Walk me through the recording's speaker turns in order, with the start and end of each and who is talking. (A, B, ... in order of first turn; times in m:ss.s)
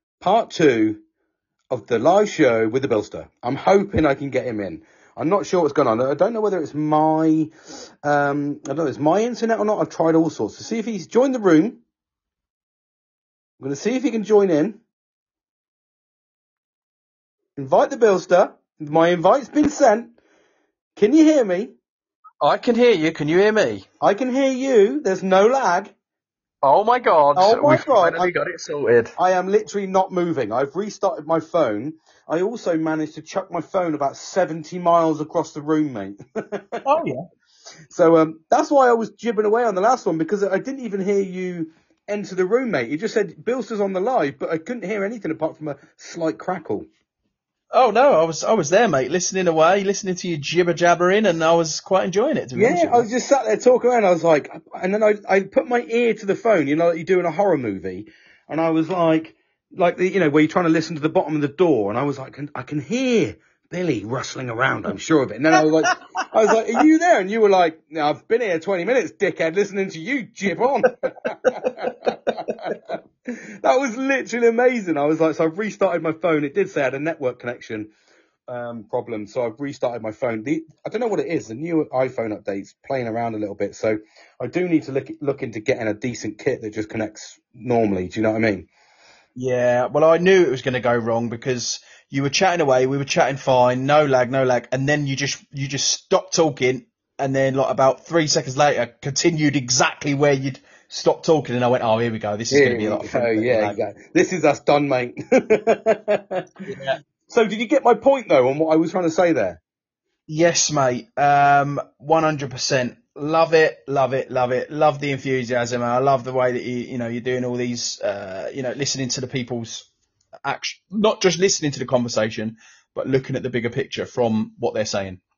0:00.2-0:01.0 A
0:01.7-0:07.5 A
0:08.0-0:11.8 A
0:13.6-0:14.8 A
0:17.6-0:20.1 A
0:21.0-0:21.7 A
0:22.4-0:23.8 B
0:24.0-0:25.9 A
0:26.6-0:29.1 B
0:27.4-0:28.3 A
0:29.2-0:36.8 A
0:36.8-0:37.2 B
0:37.9-0:46.9 A
0:47.7-0:53.1 B
0:52.5-1:17.9 A
1:18.5-1:28.7 A
1:29.4-1:43.8 B
1:42.5-1:46.4 A
1:46.7-1:47.0 B
1:47.3-1:49.6 A
1:50.3-1:59.9 B
2:00.4-2:05.2 B